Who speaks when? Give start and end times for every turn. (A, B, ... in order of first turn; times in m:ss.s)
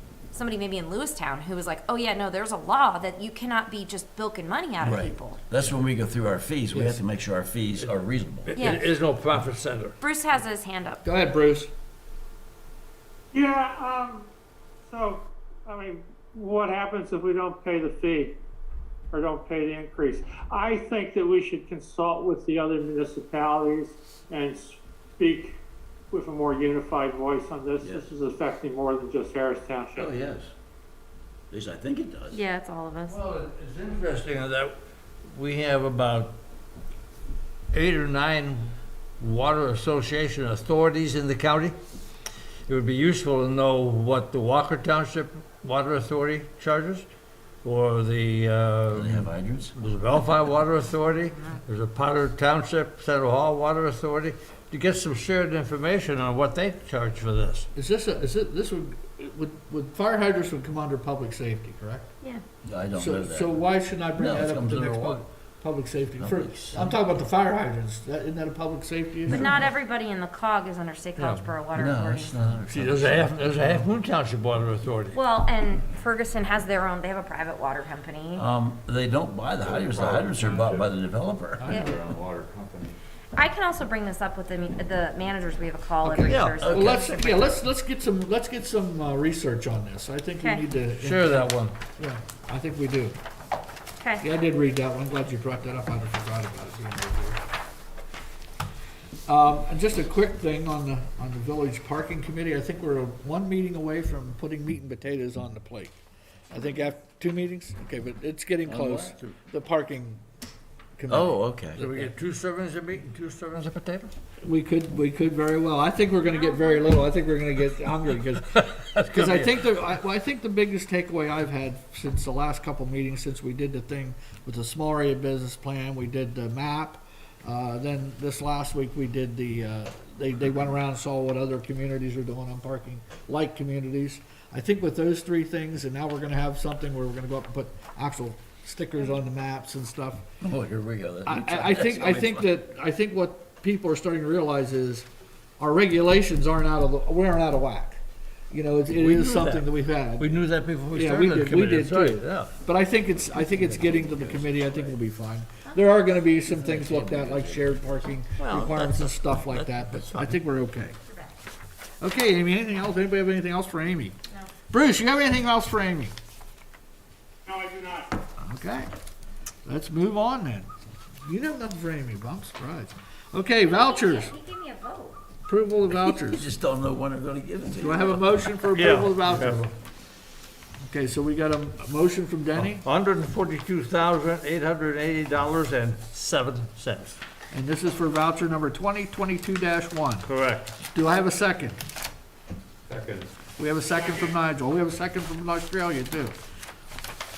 0:00.3-0:05.4 A
0:04.8-0:08.7 B
0:06.7-0:07.0 C
0:08.5-0:10.0 D
0:08.6-0:08.9 A
0:10.0-0:11.0 A
0:11.0-0:11.7 C
0:13.3-0:14.3 E
0:14.8-0:18.4 E
0:19.1-0:25.6 E
0:26.1-0:30.1 E
0:27.8-0:28.1 B
0:30.0-0:30.5 B
0:31.5-0:32.4 B
0:32.3-0:33.2 A
0:33.1-0:34.7 D
0:35.3-0:36.4 D
0:37.7-0:41.8 D
0:42.7-0:47.1 D
0:47.6-0:57.7 D
0:48.9-0:49.7 B
0:57.8-1:02.1 C
1:02.6-1:03.6 B
1:03.0-1:09.7 C
1:04.2-1:05.2 B
1:06.2-1:07.0 B
1:09.3-1:12.5 A
1:11.2-1:11.5 D
1:11.8-1:13.9 B
1:12.7-1:15.2 D
1:15.1-1:18.4 A
1:18.4-1:21.8 B
1:19.6-1:20.9 F
1:21.6-1:21.9 C
1:21.6-1:23.0 F
1:23.4-1:27.6 A
1:26.0-1:33.2 C
1:26.3-1:26.6 D
1:26.6-1:27.1 B
1:30.4-1:30.6 A
1:30.9-1:31.8 D
1:34.0-1:34.2 A
1:34.2-1:37.4 C
1:39.3-1:46.0 C
1:46.5-1:50.2 C
1:48.6-1:49.4 B
1:51.0-1:52.1 C
1:51.1-1:51.8 B
1:51.8-1:54.1 D
1:54.4-2:20.2 C
1:56.3-1:57.0 A
1:59.0-1:59.6 D
2:20.4-2:22.5 B
2:21.2-2:25.1 C
2:25.6-2:28.0 C
2:28.5-2:41.0 C
2:28.9-2:32.5 D
2:33.4-2:34.9 B
2:36.5-2:37.8 B
2:38.4-2:40.4 D
2:41.1-2:41.3 A
2:42.0-2:44.2 C
2:44.7-2:46.1 C
2:47.5-2:48.2 E
2:48.4-2:48.9 C
2:49.7-2:50.7 C
2:51.2-2:54.3 C
2:53.6-2:55.2 A
2:55.5-2:56.5 C
2:56.2-2:58.4 B
2:57.8-2:59.6 C
2:58.7-2:59.7 D
3:00.8-3:02.9 C
3:02.6-3:07.2 D
3:07.5-3:10.3 C
3:10.2-3:10.7 D
3:10.9-3:11.8 C
3:12.9-3:13.3 F
3:13.6-3:16.4 C